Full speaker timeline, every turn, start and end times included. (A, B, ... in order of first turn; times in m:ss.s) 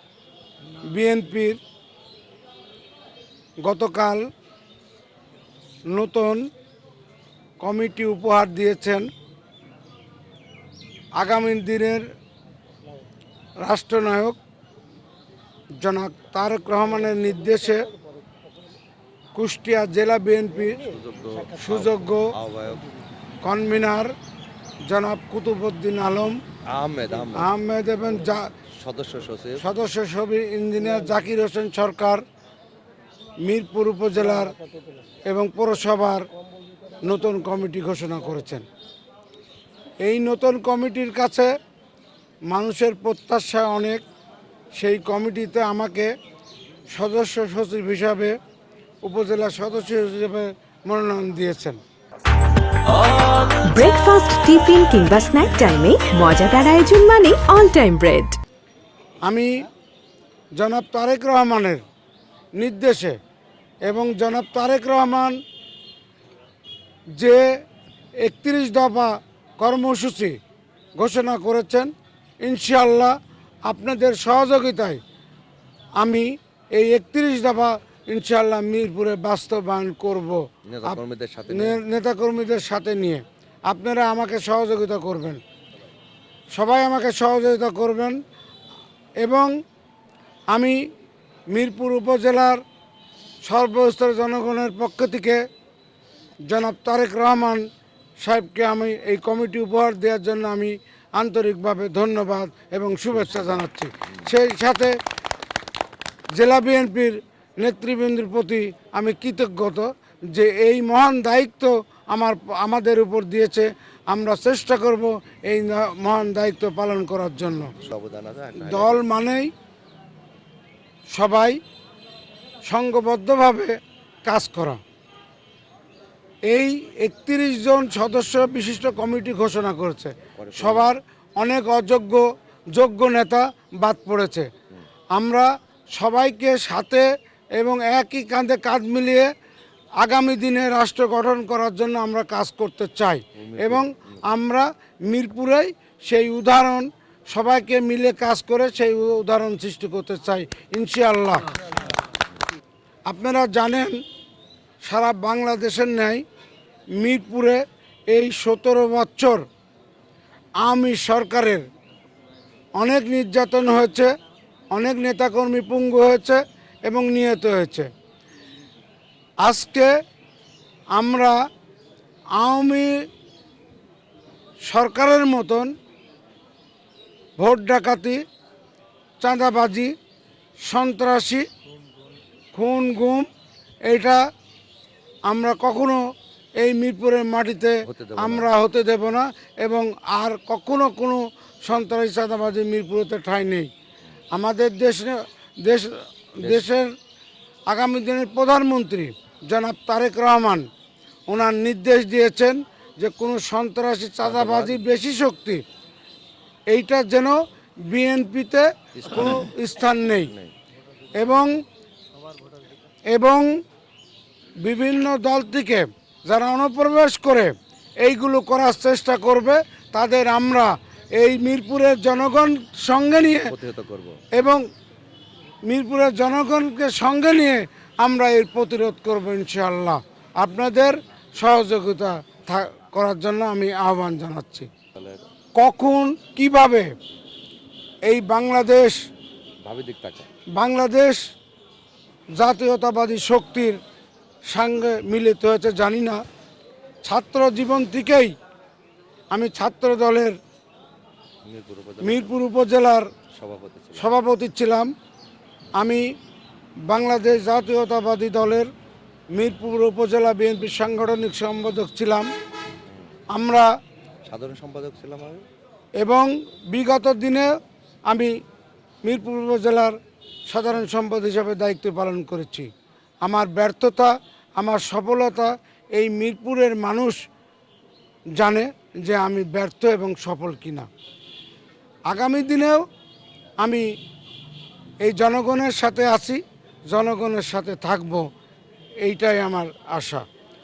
0:00.9-0:01.6 A
0:03.6-0:04.2 A
0:05.9-0:06.4 A
0:07.6-0:09.1 A
0:11.2-0:12.0 A
0:13.6-0:14.4 A
0:15.8-0:17.8 A
0:19.4-0:20.9 A
0:20.9-0:22.8 B
0:21.6-0:22.3 A
0:23.4-0:24.1 A
0:24.8-0:26.4 A
0:26.7-0:27.5 B
0:27.3-0:28.5 A
0:28.8-0:29.6 B
0:29.6-0:32.2 A
0:33.4-0:34.5 A
0:35.3-0:36.2 A
0:37.0-0:38.6 A
0:40.0-0:41.5 A
0:42.5-0:44.0 A
0:44.7-0:46.1 A
0:46.9-0:48.4 A
0:49.0-0:51.8 A
0:53.0-0:58.4 C
0:59.2-0:59.7 A
1:00.6-1:01.8 A
1:02.6-1:03.2 A
1:03.9-1:05.4 A
1:08.2-1:10.4 A
1:11.0-1:11.9 A
1:12.4-1:13.1 A
1:13.6-1:15.0 A
1:16.0-1:25.4 A
1:20.7-1:21.8 B
1:26.5-1:28.2 A
1:29.2-1:29.5 A
1:31.5-1:32.6 A
1:33.4-1:35.4 A
1:36.5-1:37.6 A
1:38.2-1:44.9 A
1:43.2-1:43.5 B
1:46.3-1:57.7 A
1:57.8-1:59.0 B
1:58.6-1:59.5 A
2:01.1-2:01.6 A
2:02.7-2:03.7 A
2:04.2-2:04.8 A
2:06.5-2:12.2 A
2:10.3-2:10.9 B
2:12.7-2:14.5 A
2:15.1-2:17.0 A
2:17.6-2:19.3 A
2:20.0-2:31.5 A
2:23.4-2:24.0 B
2:33.1-2:34.0 A
2:34.8-2:36.2 A
2:37.0-2:39.4 A
2:40.6-2:41.6 A
2:42.8-2:44.1 A
2:44.7-2:47.9 A
2:49.4-2:49.9 A
2:51.0-2:51.3 A
2:52.4-2:52.9 A
2:54.7-2:55.7 A
2:57.4-2:58.2 A
2:59.2-2:59.9 A
3:00.7-3:01.4 A
3:02.5-3:03.2 A
3:03.9-3:04.2 A
3:05.3-3:06.0 A
3:06.6-3:13.7 A
3:07.8-3:08.5 B
3:14.3-3:16.9 A
3:16.4-3:16.6 B
3:17.7-3:20.6 A
3:21.3-3:25.6 A
3:24.2-3:24.8 B
3:26.7-3:27.3 A
3:27.9-3:30.3 A
3:28.9-3:29.5 B
3:30.3-3:30.5 B
3:31.2-3:31.6 A
3:33.1-3:33.5 A
3:34.6-3:43.5 A
3:43.4-3:44.2 B
3:44.3-3:44.6 A
3:45.7-3:54.7 A
3:55.6-3:56.9 A
3:58.0-3:59.0 A
3:59.6-4:00.3 B
4:00.6-4:01.2 A
4:02.4-4:03.8 A
4:04.5-4:06.2 A
4:07.0-4:08.3 A
4:09.3-4:10.4 A
4:11.4-4:12.3 B
4:12.0-4:13.1 A
4:13.3-4:14.1 B
4:14.0-4:14.9 A
4:15.8-4:16.0 A
4:16.9-4:18.7 A
4:19.3-4:22.3 A
4:23.3-4:23.7 A
4:24.3-4:25.4 B
4:26.0-4:27.5 A
4:29.0-4:30.0 A
4:30.5-4:32.7 A
4:33.2-4:37.2 A
4:38.4-4:40.9 A
4:42.1-4:42.8 A
4:45.0-4:48.2 A
4:49.0-4:50.2 A